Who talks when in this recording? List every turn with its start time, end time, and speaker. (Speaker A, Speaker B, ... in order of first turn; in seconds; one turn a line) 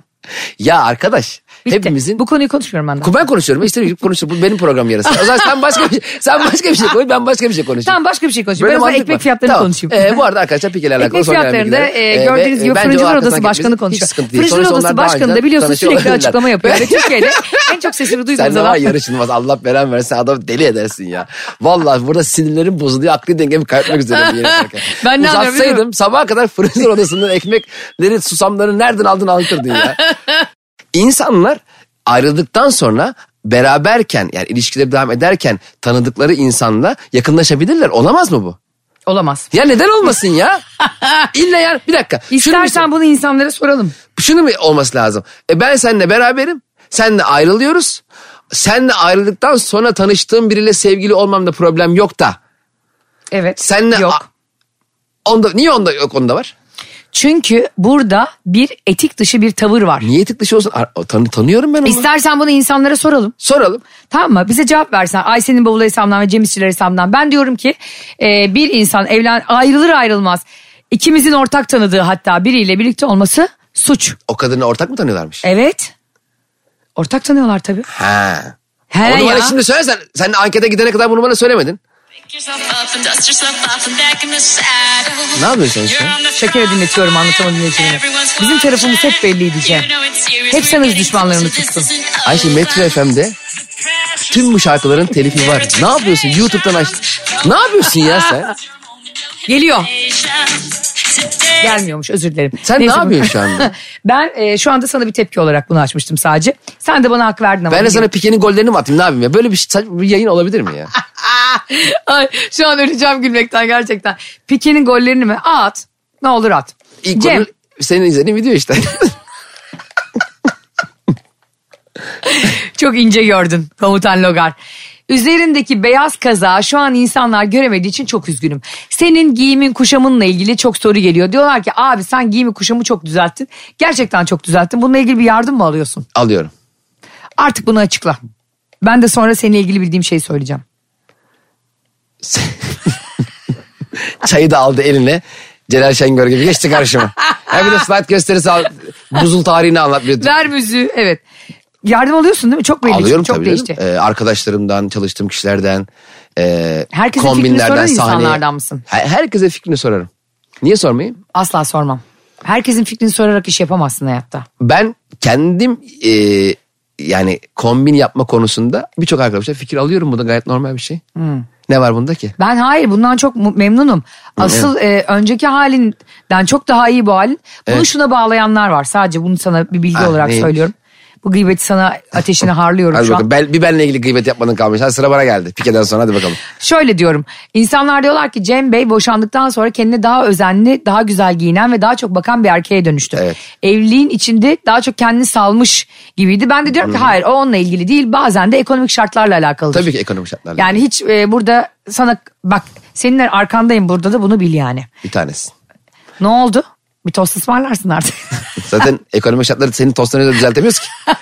Speaker A: 0.6-2.2
Speaker B: 1.6-3.1
Speaker A: 3.0-8.0
Speaker B: 7.8-10.2
Speaker A: 8.6-17.4
Speaker B: 11.0-18.9
Speaker A: 18.3-30.0
Speaker B: 24.1-25.8
Speaker B: 30.0-30.3
Speaker A: 30.9-38.6
Speaker B: 39.1-39.5
Speaker A: 39.5-40.6
Speaker B: 41.0-41.3
Speaker A: 41.3-42.8
Speaker B: 42.3-44.0
Speaker A: 44.1-52.4
Speaker B: 53.3-54.2
Speaker A: 53.6-54.2
Speaker A: 55.2-56.5
Speaker B: 57.1-60.1
Speaker A: 60.0-62.1
Speaker B: 61.8-63.3
Speaker A: 63.4-63.8
Speaker B: 64.1-74.2
Speaker A: 74.3-75.4
Speaker B: 75.4-75.9
Speaker B: 77.0-77.9
Speaker A: 77.9-81.8
Speaker B: 78.9-79.6
Speaker C: 82.3-86.5
Speaker A: 85.3-86.2
Speaker B: 86.3-89.9
Speaker C: 87.8-93.0
Speaker B: 90.5-91.9
Speaker A: 92.2-93.3
Speaker A: 94.2-98.5
Speaker C: 95.4-96.5
Speaker B: 99.5-99.9
Speaker C: 99.8-101.7
Speaker B: 101.6-108.1
Speaker A: 102.6-103.7
Speaker A: 107.7-110.9
Speaker B: 111.5-117.5
Speaker A: 117.0-119.1
Speaker B: 122.2-124.5
Speaker B: 125.1-136.1
Speaker A: 136.1-136.5
Speaker B: 137.4-138.2
Speaker B: 138.8-140.6
Speaker A: 142.2-142.9
Speaker A: 144.2-150.3
Speaker B: 150.2-151.2
Speaker B: 151.8-153.8
Speaker A: 152.8-160.1
Speaker B: 156.9-158.8
Speaker A: 160.6-161.2
Speaker B: 161.3-164.4
Speaker A: 164.6-171.0
Speaker B: 171.2-171.4
Speaker A: 171.7-172.3
Speaker B: 172.4-183.2
Speaker A: 174.4-174.7
Speaker A: 179.9-180.5
Speaker A: 182.9-186.4
Speaker B: 186.5-199.9
Speaker A: 196.8-197.1
Speaker A: 199.7-200.8
Speaker B: 200.6-204.9
Speaker A: 205.0-205.5
Speaker B: 206.2-208.4
Speaker A: 208.6-210.9